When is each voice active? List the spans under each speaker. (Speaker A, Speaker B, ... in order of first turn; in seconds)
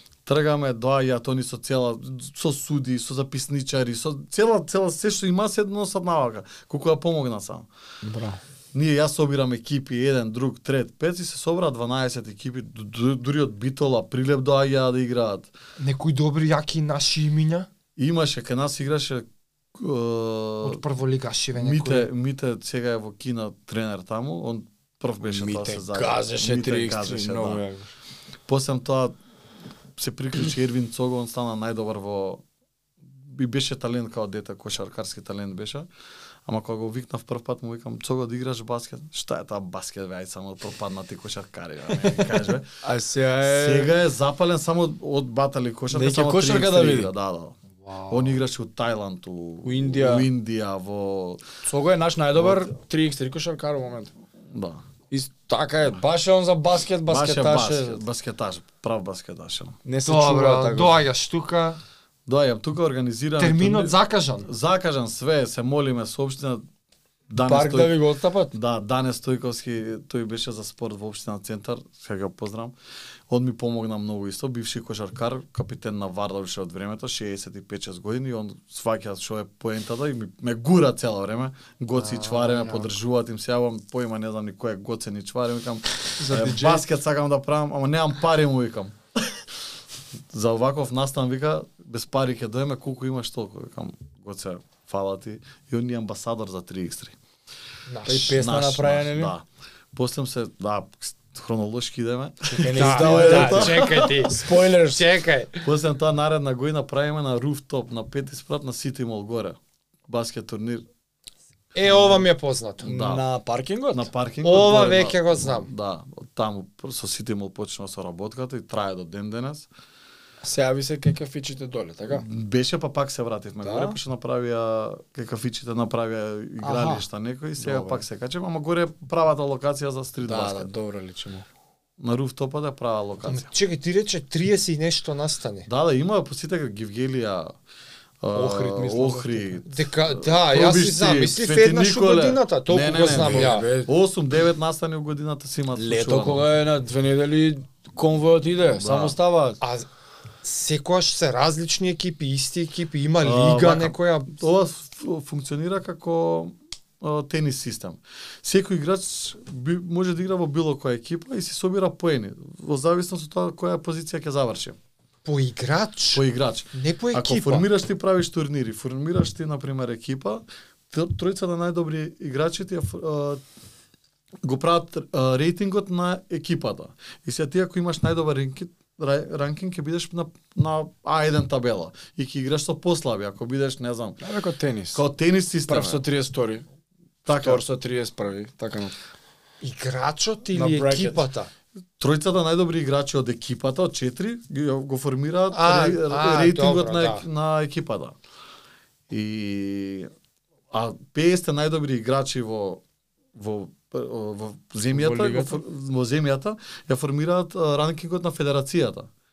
Speaker A: 0.2-7.7, 8.7-15.5, 18.0-20.8, 21.5-27.6, 28.5-29.1, 29.9-32.4, 33.0-35.9, 36.5-42.7, 43.4-47.6, 48.1-51.4, 52.3-52.7, 54.5-54.8, 57.1-59.8, 62.2-66.6, 67.3-72.7, 73.3-89.4, 90.3-97.2, 98.1-104.3, 105.6-110.8, 111.8-112.2, 112.8-113.2, 113.9-119.7, 122.1-130.7, 132.0-133.5, 135.7-137.5, 138.2-146.4, 148.8-149.2, 153.2-164.8, 166.1-173.4, 174.4-184.2, 184.9-186.0, 187.2-187.6, 192.0-198.2, 199.1-200.1, 200.7-202.8, 203.3-209.1
Speaker B: 8.0-8.4, 25.2-27.9, 42.8-43.9, 45.9-47.1, 49.6-50.3, 51.6-54.1, 55.1-58.0, 59.8-61.0, 67.4-68.5, 86.2-86.8, 98.0-99.3, 102.4-105.0, 112.8-114.1, 120.4-122.2, 123.6-124.0, 126.6-127.0, 127.6-128.0, 130.2-131.4, 138.3-139.6, 143.1-143.9, 145.7-149.6, 184.2-185.0, 185.7-186.6, 187.3-188.9, 190.5-191.3, 204.9-205.6
Speaker C: 15.8-17.7, 20.6-22.1, 47.8-48.4, 60.0-61.8, 63.4-64.5, 82.0-82.9, 97.9-98.4, 102.7-105.7, 111.7-112.9, 114.4-115.7, 133.2-135.7, 139.7-143.7, 149.6-149.9, 150.4-154.4, 165.2-167.7, 189.6-191.5, 195.5-197.2